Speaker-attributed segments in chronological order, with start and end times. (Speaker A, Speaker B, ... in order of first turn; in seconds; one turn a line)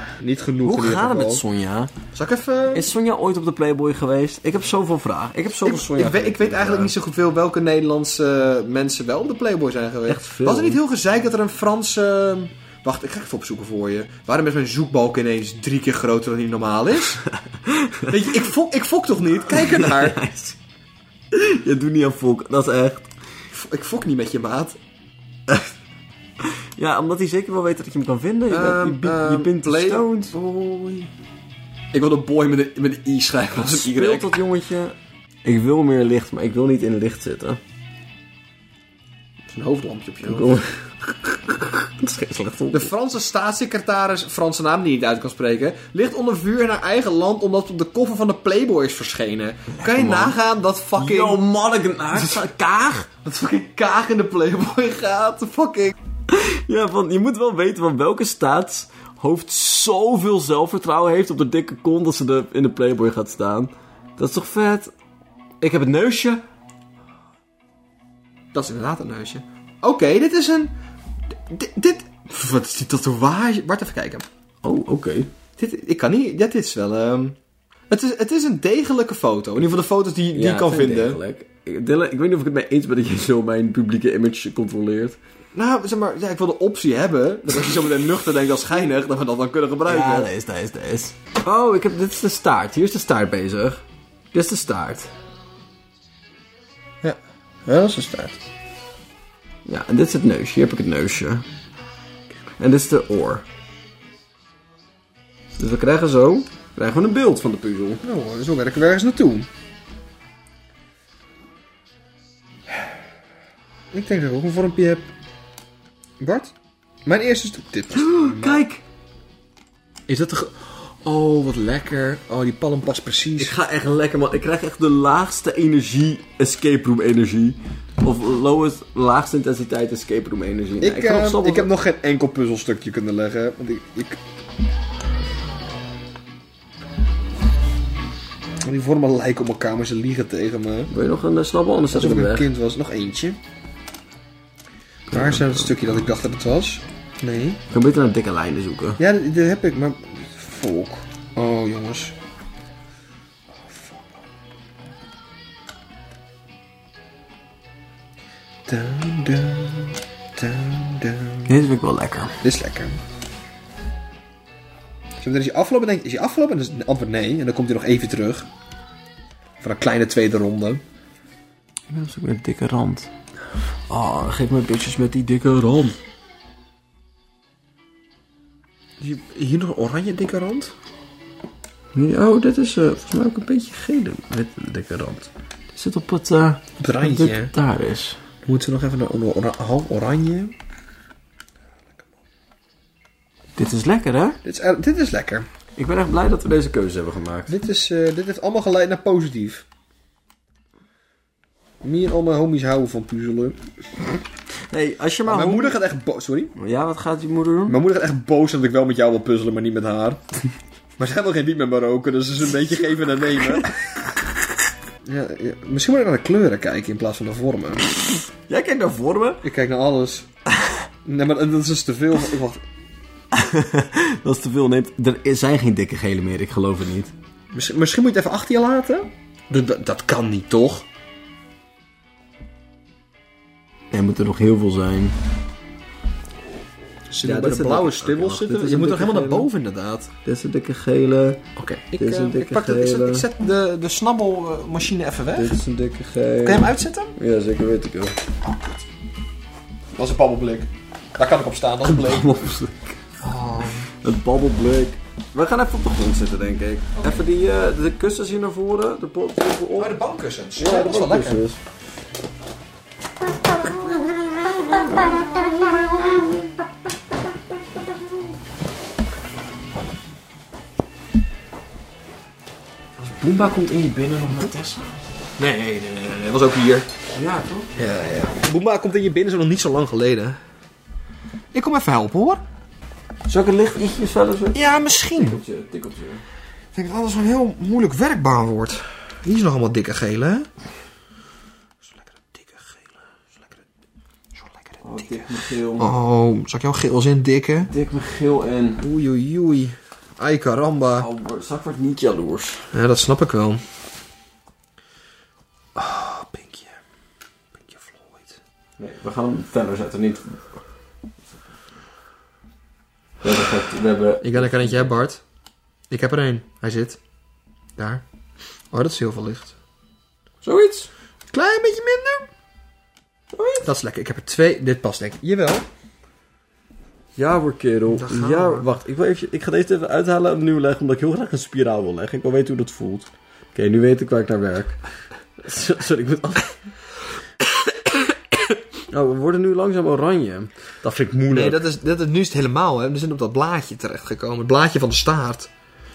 Speaker A: 0.2-1.4
Speaker B: 0.6-1.9
Speaker A: 2.1-2.9
Speaker B: 2.7-6.9
Speaker A: 5.6-17.2
Speaker B: 10.1-10.8
Speaker B: 17.2-18.2
Speaker A: 18.1-20.2
Speaker B: 19.4-20.6
Speaker B: 21.3-23.1
Speaker A: 23.5-24.8
Speaker B: 26.4-30.3
Speaker A: 28.5-31.1
Speaker A: 31.9-34.4
Speaker B: 33.6-37.6
Speaker A: 39.5-40.6
Speaker B: 40.2-42.9
Speaker A: 42.7-51.4
Speaker B: 49.7-50.4
Speaker B: 51.0-53.1
Speaker A: 52.1-52.5
Speaker A: 53.1-56.0
Speaker B: 56.3-64.9
Speaker B: 65.6-66.4
Speaker A: 68.5-70.7
Speaker A: 71.5-74.2
Speaker B: 74.6-75.3
Speaker A: 75.6-77.4
Speaker A: 77.9-81.2
Speaker B: 80.3-85.2
Speaker A: 85.5-90.3
Speaker B: 89.9-95.1
Speaker A: 97.0-98.4
Speaker B: 99.7-101.5
Speaker B: 102.6-103.5
Speaker B: 105.6-108.0
Speaker A: 108.0-109.5
Speaker A: 113.9-115.1
Speaker A: 116.2-116.5
Speaker A: 117.1-118.7
Speaker B: 117.9-118.8
Speaker A: 120.1-123.5
Speaker B: 123.4-131.7
Speaker A: 130.8-134.2
Speaker A: 138.7-140.9
Speaker B: 140.9-142.5
Speaker A: 141.9-143.4
Speaker A: 145.1-147.6
Speaker B: 145.1-145.7
Speaker B: 147.7-149.0
Speaker A: 149.0-152.1
Speaker A: 153.6-154.1
Speaker A: 158.7-161.6
Speaker B: 161.5-162.4
Speaker A: 162.4-163.0
Speaker A: 165.2-168.5
Speaker A: 169.6-170.8
Speaker B: 171.9-173.1
Speaker B: 173.9-176.0
Speaker A: 179.0-180.7
Speaker B: 181.9-188.2
Speaker A: 186.8-187.5
Speaker A: 188.4-190.5
Speaker B: 193.6-194.4
Speaker A: 194.4-195.5
Speaker B: 195.8-197.5
Speaker A: 197.5-199.6
Speaker A: 201.8-203.6
Speaker B: 204.7-205.8
Speaker A: 205.2-206.5
Speaker B: 206.6-207.8
Speaker A: 207.7-210.2
Speaker A: 211.0-213.8
Speaker B: 213.1-213.8
Speaker A: 215.0-217.9
Speaker B: 218.5-219.4
Speaker A: 219.4-220.3
Speaker A: 221.0-222.6
Speaker B: 223.3-227.1
Speaker A: 227.5-230.9
Speaker B: 233.9-235.2
Speaker A: 237.1-240.1
Speaker B: 237.2-239.5
Speaker B: 240.2-241.4
Speaker A: 241.6-245.6
Speaker B: 242.0-243.2
Speaker B: 245.3-248.2
Speaker A: 246.4-247.1
Speaker A: 250.0-252.4
Speaker B: 251.8-253.0
Speaker A: 253.2-253.9
Speaker B: 254.0-260.0
Speaker A: 259.8-261.4
Speaker B: 260.6-261.6
Speaker B: 263.6-266.3
Speaker B: 273.0-274.9
Speaker A: 275.4-276.9
Speaker B: 277.1-277.7
Speaker A: 277.8-280.4
Speaker A: 281.5-282.4
Speaker B: 283.3-286.2
Speaker A: 284.5-285.4
Speaker A: 286.7-290.5
Speaker A: 294.5-294.8
Speaker B: 294.8-295.9
Speaker A: 295.8-297.7
Speaker B: 297.6-298.8
Speaker A: 298.8-301.1
Speaker B: 301.0-302.7
Speaker A: 302.7-303.6
Speaker A: 305.8-306.6
Speaker A: 307.6-308.2
Speaker B: 308.8-310.4
Speaker B: 313.2-314.9
Speaker A: 314.2-315.2
Speaker A: 315.9-317.0
Speaker A: 317.8-318.0
Speaker A: 318.7-319.6
Speaker B: 320.4-320.9
Speaker A: 321.3-322.3
Speaker B: 323.3-323.6
Speaker A: 323.6-325.6
Speaker B: 327.1-334.8
Speaker A: 327.9-328.7
Speaker B: 335.4-336.6
Speaker B: 338.9-341.6
Speaker A: 341.3-345.5